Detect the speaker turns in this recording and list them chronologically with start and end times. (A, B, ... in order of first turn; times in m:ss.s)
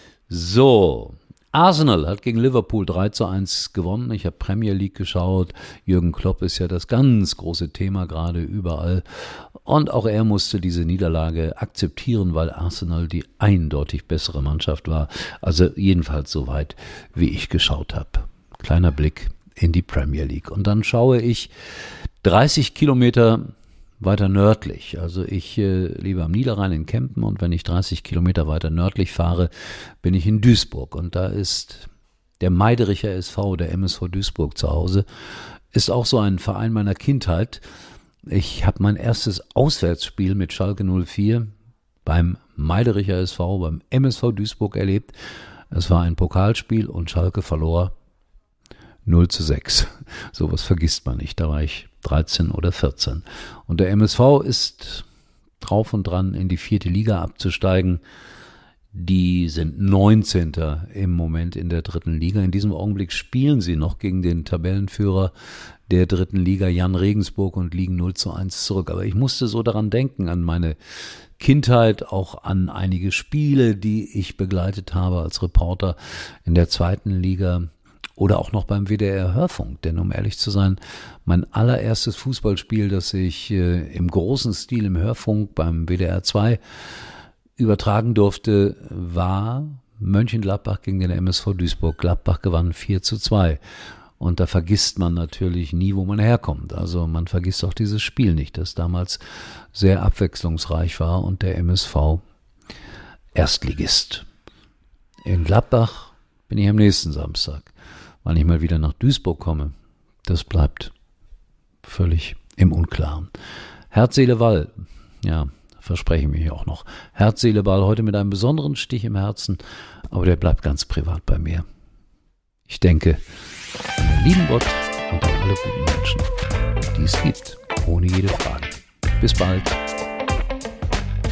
0:00.3-0:21.5 A
0:22.2-0:29.5 A
0:30.0-0:31.9 A
0:32.4-0:35.1 A
0:35.7-0:37.6 A
0:38.3-0:41.5 A
0:42.0-0:45.2 A
0:45.7-0:47.9 A
0:49.1-0:55.1 A
0:55.6-0:58.0 A
0:58.9-1:05.3 A
1:05.9-1:10.8 A
1:11.4-1:26.6 A
1:27.6-1:33.6 A
1:34.2-1:39.2 A
1:39.7-1:42.2 A
1:43.3-1:44.3 A
1:45.2-1:47.7 A
1:48.2-1:49.7 A
1:50.3-1:50.9 A
1:51.8-1:53.3 A
1:53.9-1:59.6 A
2:00.1-2:01.6 A
2:02.7-2:03.2 A
2:04.0-2:06.3 A
2:06.9-2:09.8 A